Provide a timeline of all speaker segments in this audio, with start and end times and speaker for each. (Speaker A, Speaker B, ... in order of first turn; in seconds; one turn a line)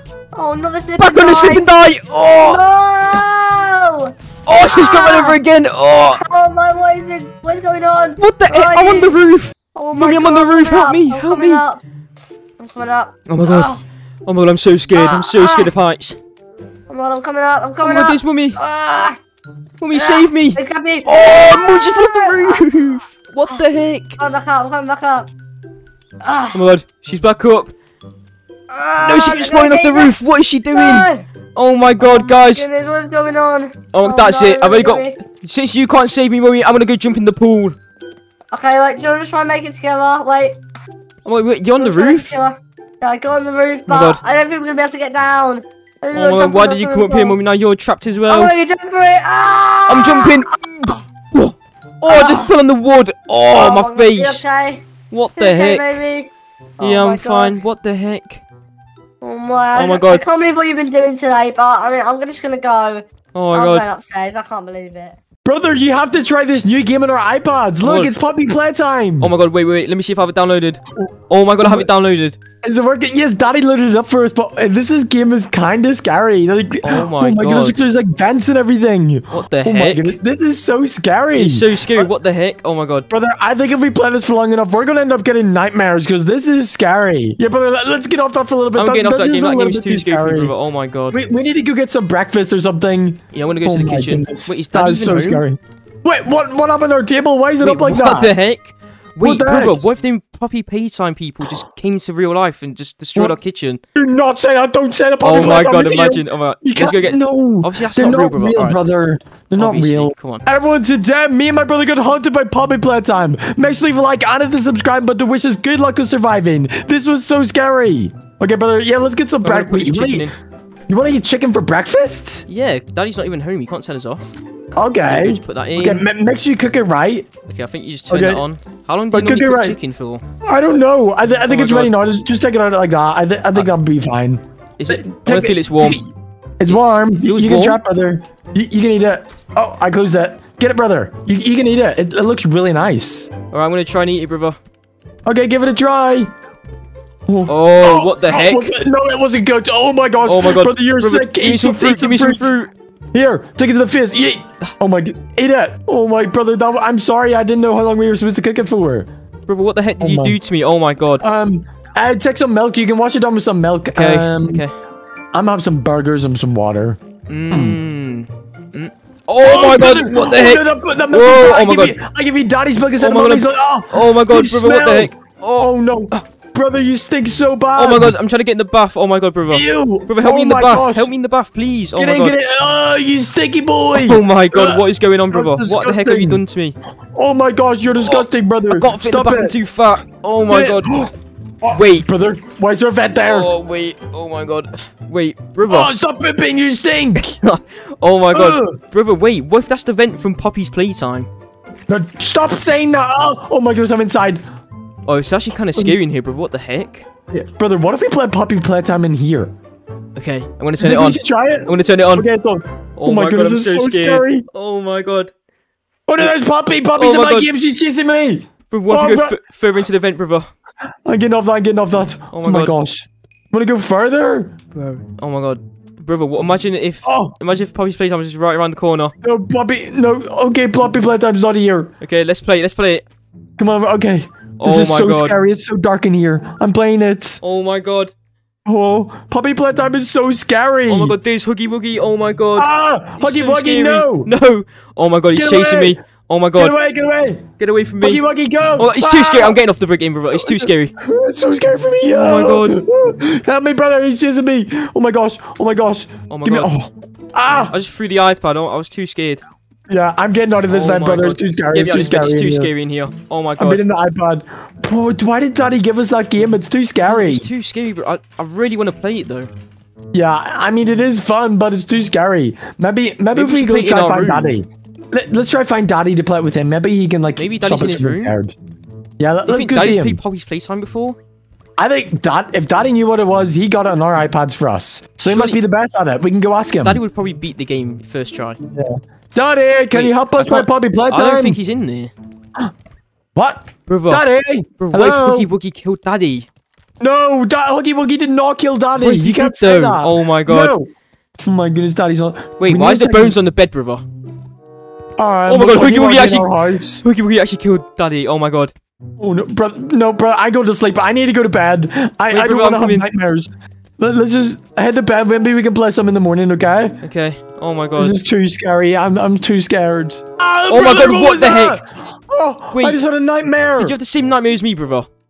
Speaker A: 0.3-1.7
Speaker B: 1.0-2.6
Speaker A: 2.4-5.4
Speaker B: 4.5-6.2
Speaker A: 6.1-9.2
Speaker B: 8.2-11.6
Speaker A: 9.8-11.8
Speaker A: 12.6-13.8
Speaker B: 13.3-13.7
Speaker B: 14.3-16.2
Speaker A: 14.9-15.7
Speaker A: 16.9-19.2
Speaker B: 17.8-18.6
Speaker B: 19.8-24.2
Speaker A: 19.9-22.6
Speaker A: 24.2-25.3
Speaker A: 26.2-26.6
Speaker B: 26.5-27.7
Speaker A: 28.7-30.2
Speaker B: 29.0-32.6
Speaker A: 30.7-31.2
Speaker A: 32.0-35.2
Speaker B: 33.9-37.8
Speaker A: 38.5-40.6
Speaker B: 41.2-42.4
Speaker A: 41.8-47.4
Speaker B: 43.9-44.2
Speaker B: 46.1-48.5
Speaker A: 48.3-50.4
Speaker B: 49.9-54.4
Speaker A: 52.1-52.5
Speaker A: 53.5-54.8
Speaker B: 55.1-56.0
Speaker A: 55.4-57.6
Speaker B: 56.8-58.4
Speaker A: 59.2-65.2
Speaker B: 59.8-60.2
Speaker B: 63.3-63.9
Speaker C: 65.5-69.3
Speaker B: 67.8-68.2
Speaker B: 69.2-72.4
Speaker C: 72.6-82.1
Speaker B: 76.8-77.8
Speaker B: 79.3-80.2
Speaker B: 81.3-83.1
Speaker C: 83.1-90.5
Speaker B: 88.8-91.2
Speaker C: 91.1-98.3
Speaker B: 93.3-95.4
Speaker B: 97.6-103.8
Speaker C: 99.2-99.8
Speaker C: 104.0-120.3
Speaker B: 105.2-108.8
Speaker B: 109.6-110.4
Speaker B: 119.4-120.3
Speaker C: 120.9-122.4
Speaker B: 122.5-124.4
Speaker C: 124.8-127.3
Speaker B: 125.0-126.1
Speaker B: 127.5-130.2
Speaker C: 128.1-128.4
Speaker C: 129.1-129.8
Speaker C: 130.4-143.3
Speaker B: 131.5-131.9
Speaker B: 134.8-136.0
Speaker B: 136.7-137.8
Speaker B: 143.5-144.6
Speaker C: 145.3-146.3
Speaker C: 147.3-152.6
Speaker B: 147.5-148.7
Speaker B: 150.2-152.7
Speaker C: 153.1-159.1
Speaker B: 159.5-161.2
Speaker C: 160.0-160.4
Speaker C: 161.2-164.6
Speaker B: 163.9-164.7
Speaker C: 165.3-167.0
Speaker B: 167.3-172.0
Speaker C: 167.5-167.8
Speaker C: 169.4-178.2
Speaker B: 173.0-176.2
Speaker B: 177.8-182.3
Speaker C: 179.5-181.1
Speaker C: 182.0-186.4
Speaker B: 183.9-186.8
Speaker C: 187.1-189.6
Speaker B: 188.0-191.1
Speaker C: 190.5-193.5
Speaker B: 191.7-192.1
Speaker B: 193.2-195.9
Speaker C: 195.7-197.4
Speaker B: 197.2-201.3
Speaker C: 198.3-198.8
Speaker C: 201.9-204.4
Speaker B: 205.1-207.1
Speaker C: 207.3-209.5
Speaker B: 210.2-212.3
Speaker C: 210.8-214.5
Speaker B: 213.0-215.3
Speaker C: 216.1-219.4
Speaker B: 217.0-217.5
Speaker B: 218.7-220.5
Speaker C: 221.1-224.5
Speaker B: 222.3-222.7
Speaker B: 224.7-229.1
Speaker C: 227.0-227.4
Speaker C: 229.2-231.9
Speaker B: 232.0-233.1
Speaker C: 233.6-237.4
Speaker B: 234.6-235.4
Speaker B: 237.4-238.1
Speaker C: 238.7-241.2
Speaker B: 240.9-246.8
Speaker C: 242.6-244.3
Speaker C: 245.3-246.0
Speaker C: 246.6-247.5
Speaker B: 247.6-248.2
Speaker C: 248.0-249.6
Speaker B: 248.8-250.9
Speaker C: 250.3-257.7
Speaker B: 252.1-252.8
Speaker B: 256.3-256.7
Speaker B: 257.6-259.4
Speaker C: 259.9-262.7
Speaker B: 260.7-263.8
Speaker C: 263.6-267.5
Speaker B: 267.1-269.5
Speaker C: 270.1-278.6
Speaker B: 273.3-274.6
Speaker B: 277.4-278.4
Speaker C: 279.2-280.2
Speaker B: 279.5-281.2
Speaker C: 281.8-287.0
Speaker B: 285.2-285.6
Speaker B: 286.8-288.6
Speaker C: 288.7-291.6
Speaker B: 289.9-292.1
Speaker C: 293.4-295.5
Speaker B: 293.9-294.2
Speaker B: 294.8-296.5
Speaker C: 297.0-303.4
Speaker B: 299.0-300.7
Speaker B: 302.6-304.0
Speaker C: 305.2-307.0
Speaker B: 305.5-306.5
Speaker B: 307.0-308.7
Speaker C: 309.2-317.0
Speaker B: 312.3-313.1
Speaker B: 317.0-318.2
Speaker C: 318.0-324.0
Speaker B: 320.7-321.8
Speaker B: 322.7-323.0
Speaker B: 323.8-325.1